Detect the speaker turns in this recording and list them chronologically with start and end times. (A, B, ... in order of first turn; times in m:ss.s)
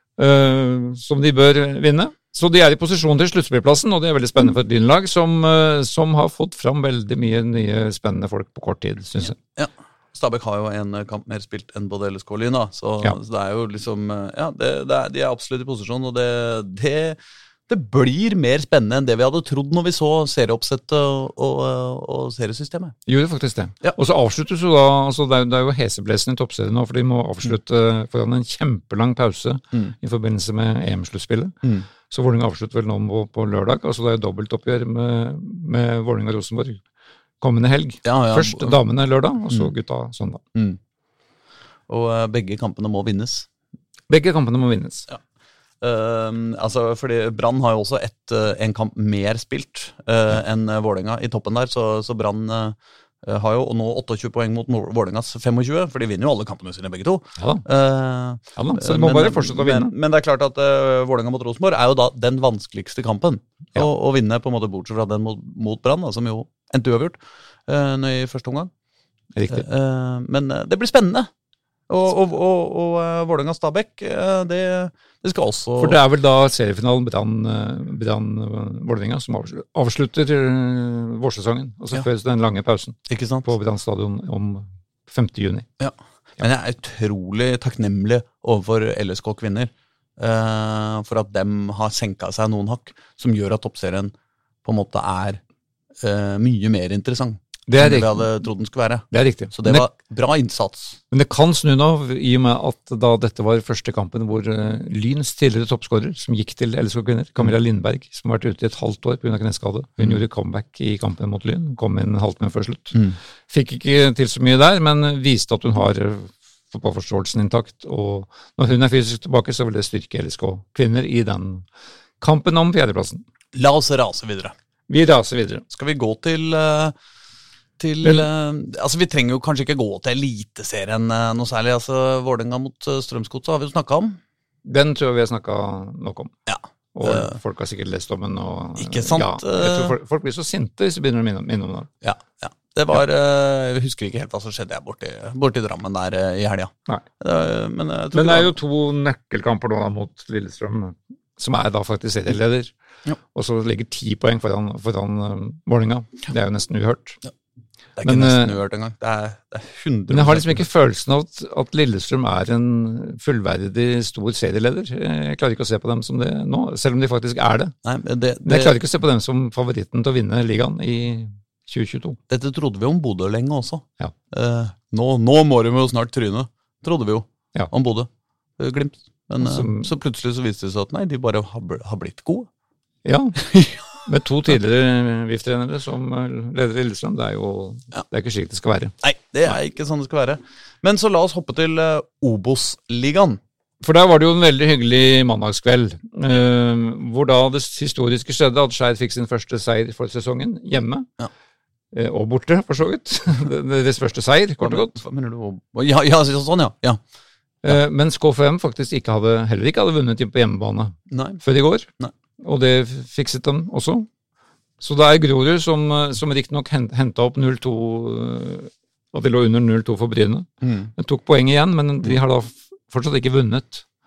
0:00.2-0:09.4 A
0:09.6-0:23.0 B
0:23.1-0:31.5 A
0:32.1-0:36.8 A
0:37.4-0:40.4 A
0:38.0-0:38.8 B
0:41.9-0:43.5 B
0:44.1-0:45.1 A
0:45.8-1:08.7 B
0:57.4-0:57.6 A
0:58.5-0:59.9 A
1:09.4-1:09.6 A
1:09.5-1:11.3 B
1:11.9-1:16.0 B
1:15.8-1:25.6 A
1:23.1-1:23.5 B
1:25.8-1:34.1 B
1:34.6-1:35.4 B
1:36.0-1:41.0 B
1:37.7-1:38.3 A
1:39.1-1:39.9 A
1:41.1-2:01.6 A
2:02.2-2:03.2 A
2:03.5-2:04.5 B
2:04.9-2:05.6 A
2:05.7-2:06.9 B
2:07.8-2:14.2 B
2:08.0-2:08.3 A
2:14.6-2:16.3 A
2:16.5-2:17.3 B
2:16.9-2:21.9 A
2:18.8-2:19.9 B
2:22.0-2:28.6 B
2:28.1-2:32.7 A
2:33.3-2:37.2 A
2:38.0-2:40.6 B
2:38.0-2:38.6 A
2:40.1-2:47.7 A
2:47.8-2:48.8 B
2:48.4-2:52.2 A
2:52.3-3:02.5 B
2:59.4-2:59.9 A
3:03.0-3:08.9 A
3:03.4-3:03.9 B
3:09.0-3:13.4 B
3:13.8-3:21.1 A
3:21.9-3:24.9 A
3:24.6-3:27.0 B
3:27.6-3:31.9 A
3:31.1-3:31.4 B
3:32.4-3:34.1 A
3:34.8-3:43.8 A
3:40.6-3:40.9 B